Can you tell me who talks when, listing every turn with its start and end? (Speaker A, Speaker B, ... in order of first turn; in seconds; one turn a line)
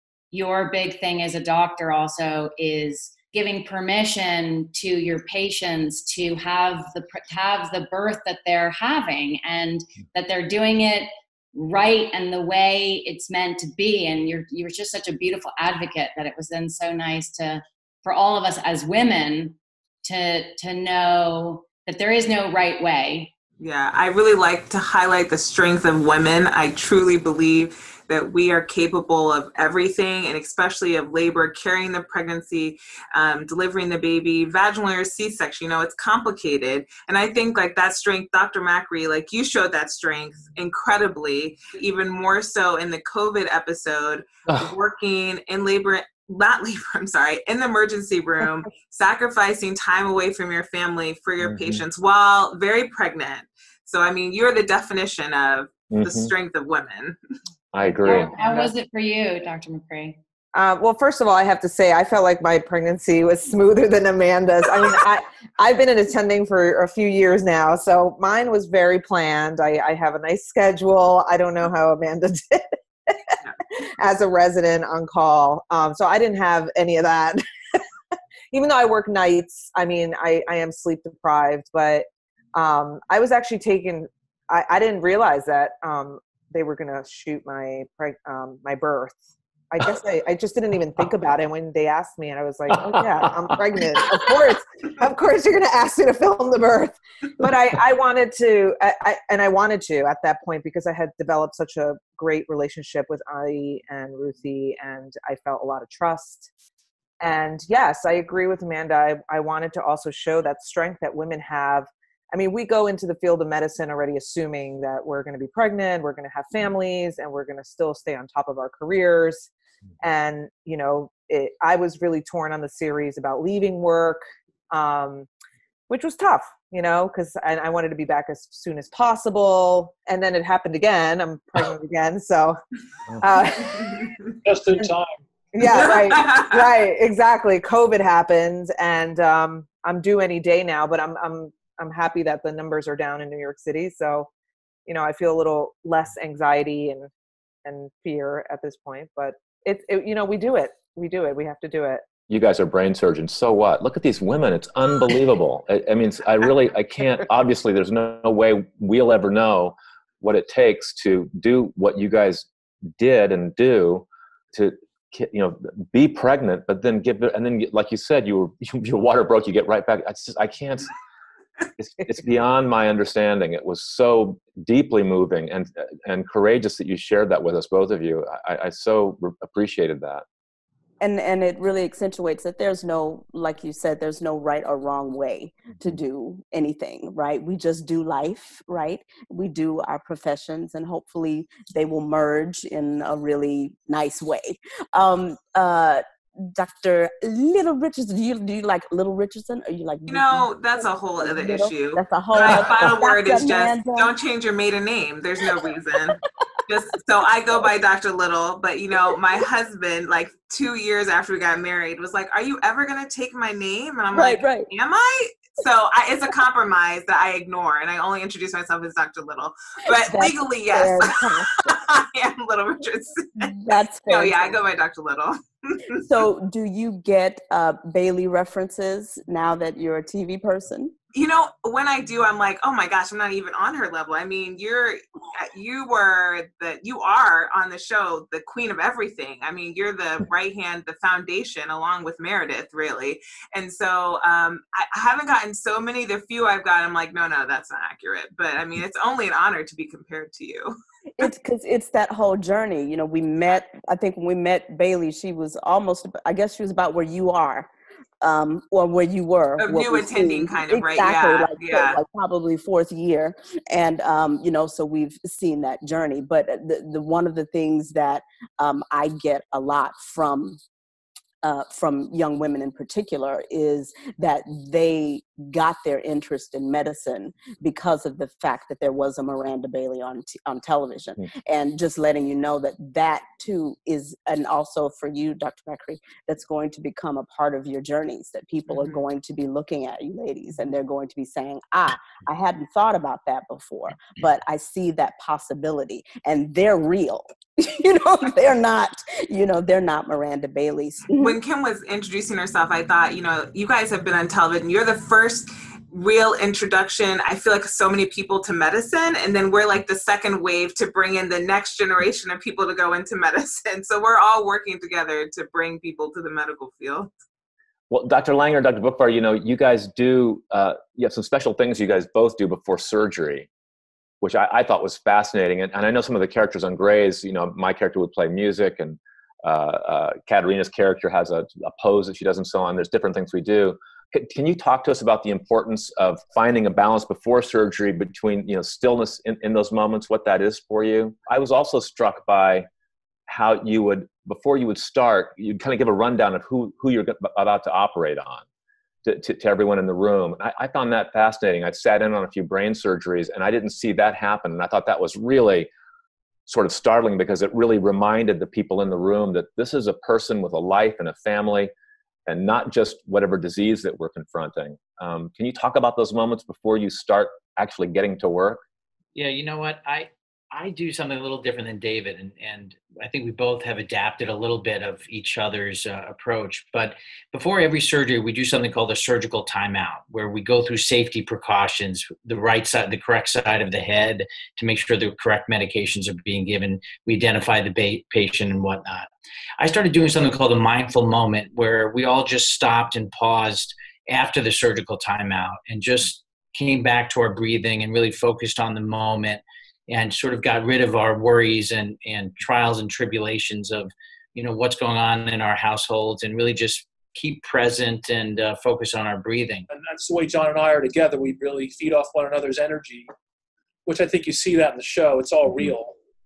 Speaker A: 0.3-23.3
Speaker B: 23.6-57.2
Speaker C: 51.4-51.8
Speaker C: 55.9-56.3
Speaker C: 57.7-58.3
Speaker A: 58.0-60.2
Speaker D: 60.5-77.4
Speaker D: 78.5-89.2
Speaker D: 89.7-106.5
Speaker D: 107.2-119.5
Speaker D: 120.0-125.3
Speaker D: 125.9-132.6
Speaker D: 133.2-134.1
Speaker E: 134.4-135.2
Speaker D: 135.5-144.3
Speaker B: 135.7-136.6
Speaker D: 144.9-147.1
Speaker D: 147.7-152.0
Speaker C: 152.3-170.9
Speaker C: 171.8-180.2
Speaker F: 181.0-204.1
Speaker B: 200.1-226.0
Speaker F: 214.1-214.7
Speaker F: 219.9-221.8
Speaker F: 223.4-224.6
Speaker F: 226.0-230.9
Speaker B: 231.1-250.8
Speaker F: 251.2-257.7
Speaker F: 258.2-270.6
Speaker B: 259.6-262.0
Speaker F: 271.4-301.4
Speaker B: 301.1-317.1
Speaker C: 317.9-323.5
Speaker C: 324.2-342.7
Speaker C: 343.3-348.4
Speaker C: 349.1-355.7
Speaker C: 356.5-361.7
Speaker C: 362.3-368.6
Speaker G: 369.1-409.7
Speaker E: 409.7-413.1
Speaker E: 413.9-416.0